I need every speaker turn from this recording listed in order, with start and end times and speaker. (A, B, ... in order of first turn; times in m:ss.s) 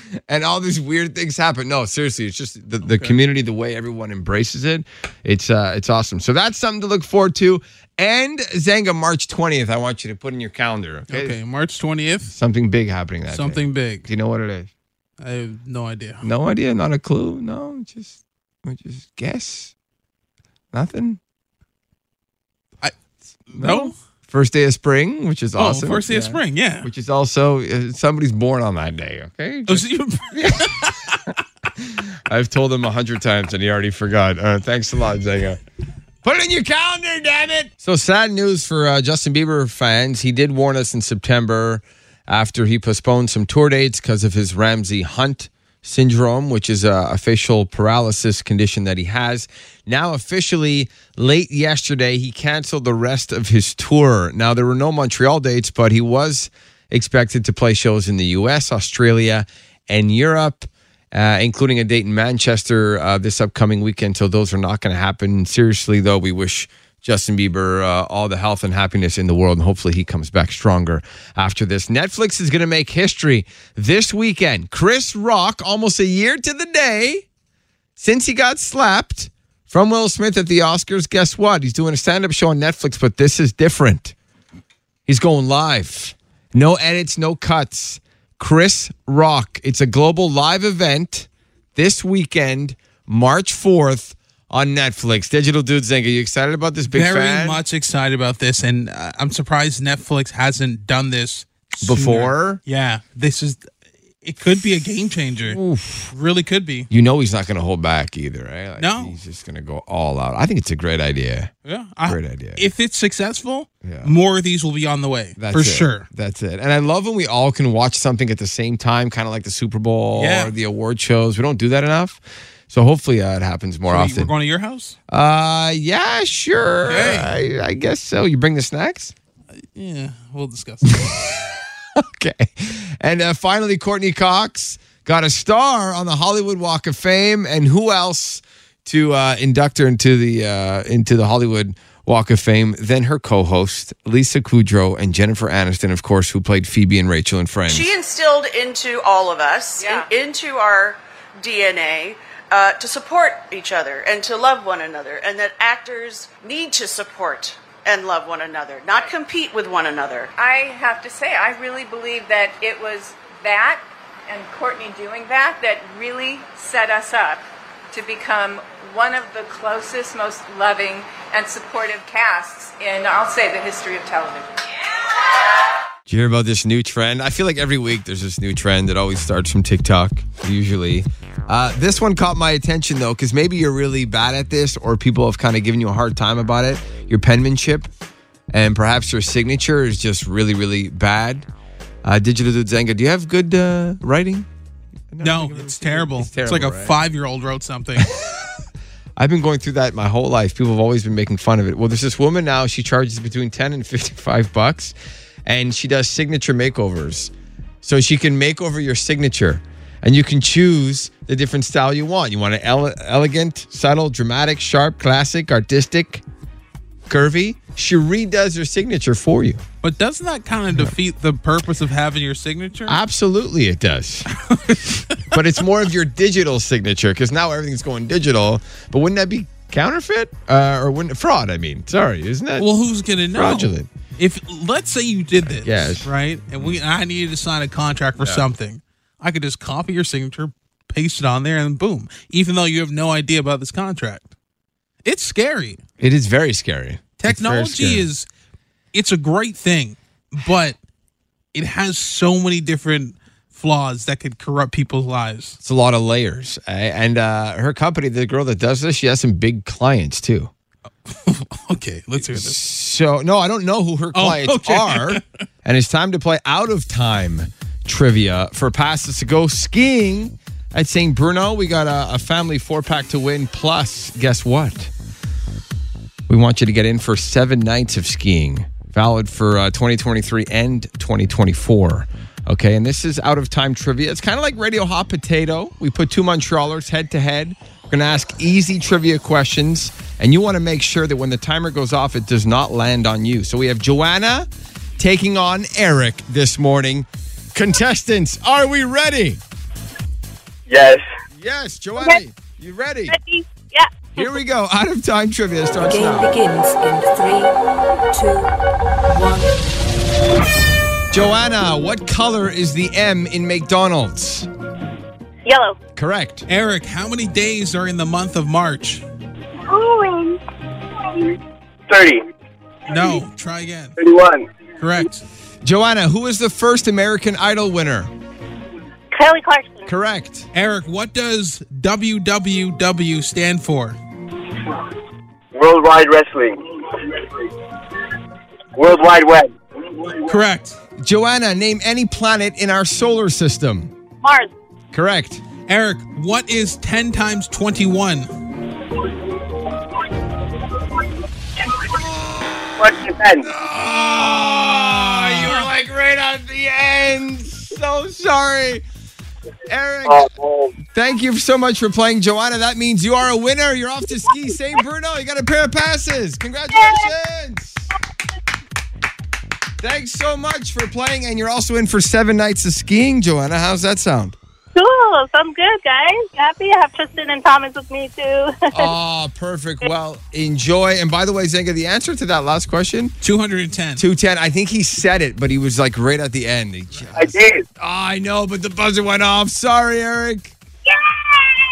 0:00.3-0:11.4 A
0:02.8-0:03.2 B
0:11.1-0:12.3 B
0:12.3-0:14.7 A
0:13.3-0:14.1 B
0:15.2-0:16.2 B
0:16.2-0:19.7 A
0:20.7-0:21.2 A
0:23.5-0:23.9 B
0:23.5-0:30.9 A
0:25.6-0:26.9 B
0:29.7-0:31.3 B
0:31.8-0:35.6 A
0:36.2-1:17.2 A
1:18.0-1:24.1 A
1:25.1-1:37.6 A
1:36.9-1:43.7 B
1:41.8-1:42.6 A
1:44.2-1:46.9 B
1:45.5-1:46.1 A
1:46.9-1:51.5 A
1:48.8-1:49.2 B
1:51.6-1:56.1 B
1:52.1-1:52.6 A
1:53.8-1:54.1 A
1:55.4-2:04.3 A
2:00.2-2:00.5 B
2:03.9-2:05.0 B
2:05.1-2:09.2 A
2:06.9-2:07.3 B
2:09.6-2:11.4 B
2:10.9-2:27.9 A
2:27.7-2:40.3 C
2:29.8-2:30.1 D
2:40.4-2:54.5 D
2:56.1-3:07.9 A
3:08.5-3:11.5 A
3:12.0-3:14.5 A
3:15.1-3:17.0 A
3:15.2-3:18.1 B
3:18.0-3:18.5 A
3:19.2-3:25.0 A
3:25.5-3:36.2 A
3:37.1-3:39.6 A
3:39.8-3:43.0 B
3:42.9-3:44.3 A
3:44.5-3:45.4 B
3:45.2-3:52.7 A
3:52.6-4:04.3 B
3:53.3-3:53.9 A
3:55.5-3:56.8 A
4:05.0-4:05.8 B
4:06.0-4:08.1 A
4:07.2-4:08.3 B
4:08.9-4:10.8 B
4:11.5-4:15.6 B
4:15.6-4:20.5 A
4:21.1-4:22.6 B
4:22.2-4:34.9 A
4:24.1-4:25.2 B
4:36.3-4:59.4 A
5:00.7-5:01.0 E
5:01.4-5:03.2 A
5:03.1-5:04.3 F
5:04.2-5:06.3 A
5:05.8-5:07.5 G
5:08.1-5:08.5 G
5:09.1-5:09.6 G
5:11.1-5:14.5 A
5:15.4-5:15.8 F
5:16.0-5:16.5 A
5:16.5-5:19.0 B
5:19.8-5:20.3 F
5:21.9-5:22.2 E
5:22.9-5:24.0 B
5:24.0-5:24.5 E
5:24.8-5:25.2 B
5:25.6-5:28.1 A
5:29.1-5:29.9 F
5:29.9-5:30.5 A
5:30.5-5:34.0 B
5:35.5-5:36.5 E
5:38.8-5:40.2 E
5:40.3-5:40.8 B
5:41.0-5:43.9 A
5:44.2-5:44.5 F
5:44.9-5:45.4 A
5:45.7-5:48.3 B
5:51.9-5:58.8 A
5:52.8-5:53.5 E
5:54.6-5:55.7 B
5:59.7-6:00.3 A
6:00.1-6:00.8 E
6:00.8-6:07.9 A
6:06.7-6:07.1 F
6:09.8-6:14.4 A
6:14.7-6:18.9 F
6:18.7-6:23.2 A
6:23.2-6:24.0 B
6:24.0-6:30.5 A
6:27.2-6:27.6 E